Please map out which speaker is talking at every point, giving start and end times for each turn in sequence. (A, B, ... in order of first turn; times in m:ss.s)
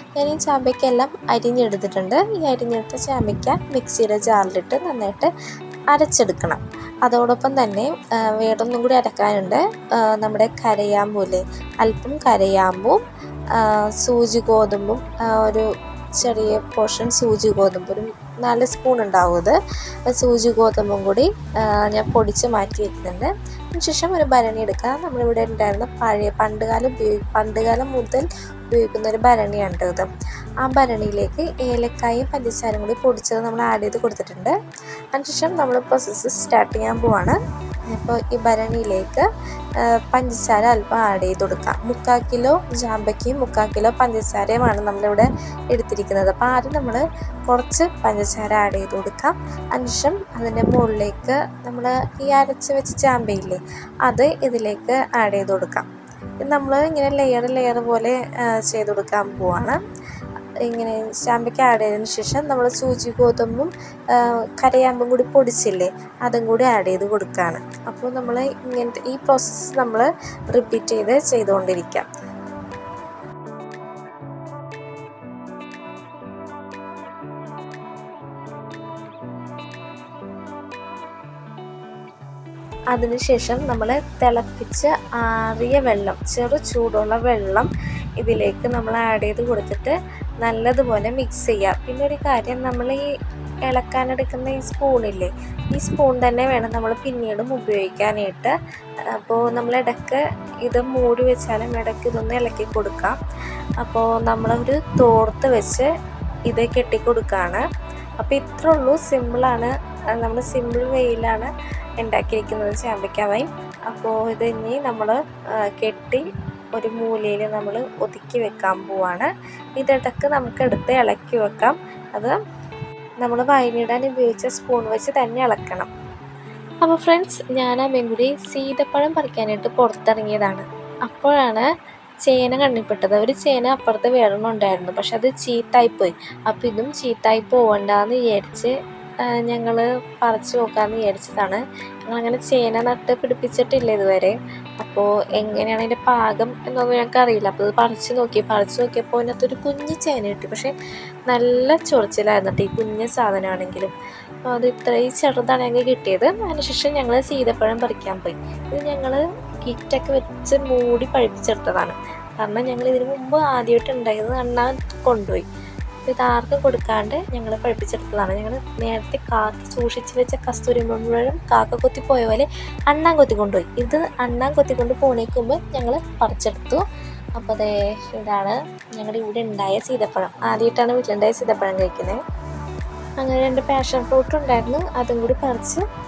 0:00.2-0:05.3 A
0:05.9-0:13.0 A
0:13.5-0:15.7 A
0:16.2-0:30.1 A
0:30.6-0:34.5 A
0:35.1-0:37.4 A
0:37.9-0:39.2 A
0:39.8-0:55.9 A
0:56.4-0:59.8 A
1:00.6-1:12.1 A
1:22.9-1:33.0 A
1:33.6-1:38.5 A
1:39.1-1:43.2 A
1:43.8-1:45.9 A
1:46.5-1:47.6 A
1:48.2-2:02.4 A
2:03.2-2:05.9 A
2:06.8-2:11.6 A
2:12.2-2:30.7 A
2:31.3-2:33.9 A
2:34.5-2:45.4 A
2:46.1-2:56.8 A
2:57.4-3:02.2 A
3:03.2-3:05.8 A